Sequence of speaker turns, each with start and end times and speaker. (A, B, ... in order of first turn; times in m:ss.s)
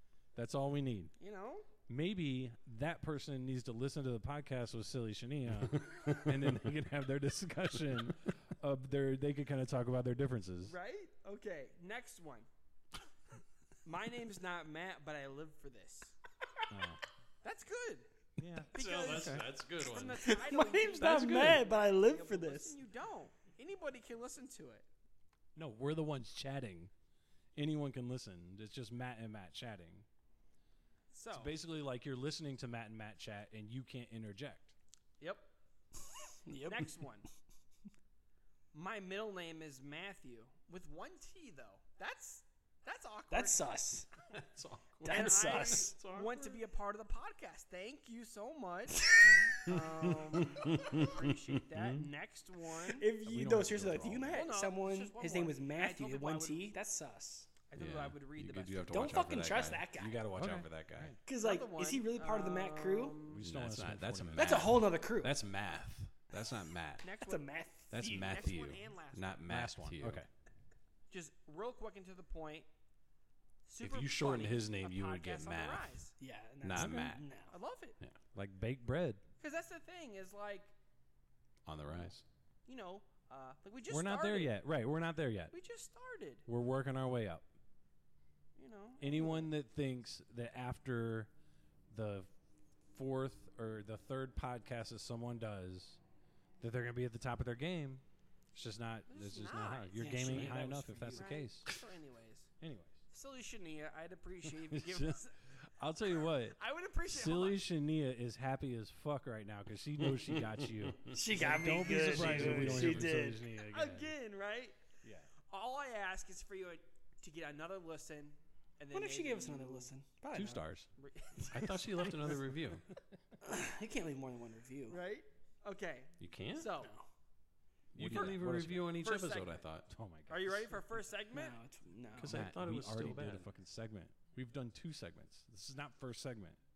0:00.3-0:01.1 A
0:01.2-0:01.7 B
0:01.9-0:10.7 A
0:05.7-0:06.4 C
0:10.6-0:12.5 B
0:13.8-0:16.2 B
0:16.7-0:17.0 A
0:17.4-0:18.1 B
0:18.4-0:19.5 A
0:18.7-0:24.8 B
0:18.7-0:20.4 C
0:20.2-0:22.8 D
0:21.0-0:21.6 A
0:25.6-0:26.9 A
0:27.6-0:30.0 A
0:31.1-0:31.5 B
0:31.3-0:34.7 A
0:35.2-0:35.5 B
0:36.4-0:36.9 D
0:36.6-0:37.3 B
0:38.7-0:43.7 B
0:43.3-0:44.1 D
0:44.3-0:46.6 C
0:45.0-0:46.0 D
0:45.0-0:53.1 B
0:49.6-0:52.1 C
0:52.9-0:57.5 D
0:53.2-0:54.4 A
0:54.3-0:56.6 B
0:57.7-0:59.2 B
0:57.8-1:01.1 C
0:58.9-1:00.2 D
1:00.3-1:01.2 A
1:01.2-1:03.2 D
1:01.4-1:03.4 B
1:03.3-1:05.0 A
1:03.4-1:07.0 C
1:04.4-1:05.4 D
1:07.0-1:09.5 B
1:07.2-1:08.2 D
1:07.9-1:10.2 C
1:09.4-1:10.3 A
1:11.1-1:12.7 B
1:13.6-1:16.1 B
1:13.8-1:15.9 C
1:16.2-1:17.5 D
1:16.6-1:17.2 C
1:16.6-1:17.2 A
1:17.5-1:18.0 B
1:18.3-1:19.2 A
1:19.4-1:20.7 B
1:21.6-1:22.2 C
1:22.6-1:24.5 B
1:23.9-1:25.5 A
1:25.5-1:26.4 B
1:26.5-1:27.4 A
1:28.6-1:29.5 B
1:29.0-1:31.3 A
1:31.9-1:32.3 A
1:32.9-1:36.0 A
1:36.6-1:38.0 A
1:38.5-1:41.7 A
1:39.1-1:42.5 B
1:40.0-1:41.3 D
1:42.6-1:43.0 A
1:43.1-1:45.4 B
1:44.6-1:54.1 A
1:46.5-1:47.6 B
1:50.0-1:51.2 C
1:51.1-1:53.4 D
1:52.1-1:53.2 C
1:53.5-1:54.8 B
1:55.0-1:55.3 A
1:55.4-1:59.9 B
1:58.9-2:00.6 D
2:00.4-2:00.9 C
2:01.0-2:01.8 B
2:01.5-2:02.8 C
2:03.4-2:05.0 D
2:04.9-2:06.9 B
2:06.2-2:06.7 C
2:06.8-2:07.0 D
2:07.9-2:09.9 C
2:07.9-2:09.0 A
2:08.0-2:08.3 B
2:08.9-2:09.6 B
2:09.9-2:10.8 A
2:10.3-2:11.6 B
2:11.3-2:12.4 D
2:12.2-2:13.5 C
2:12.2-2:16.6 A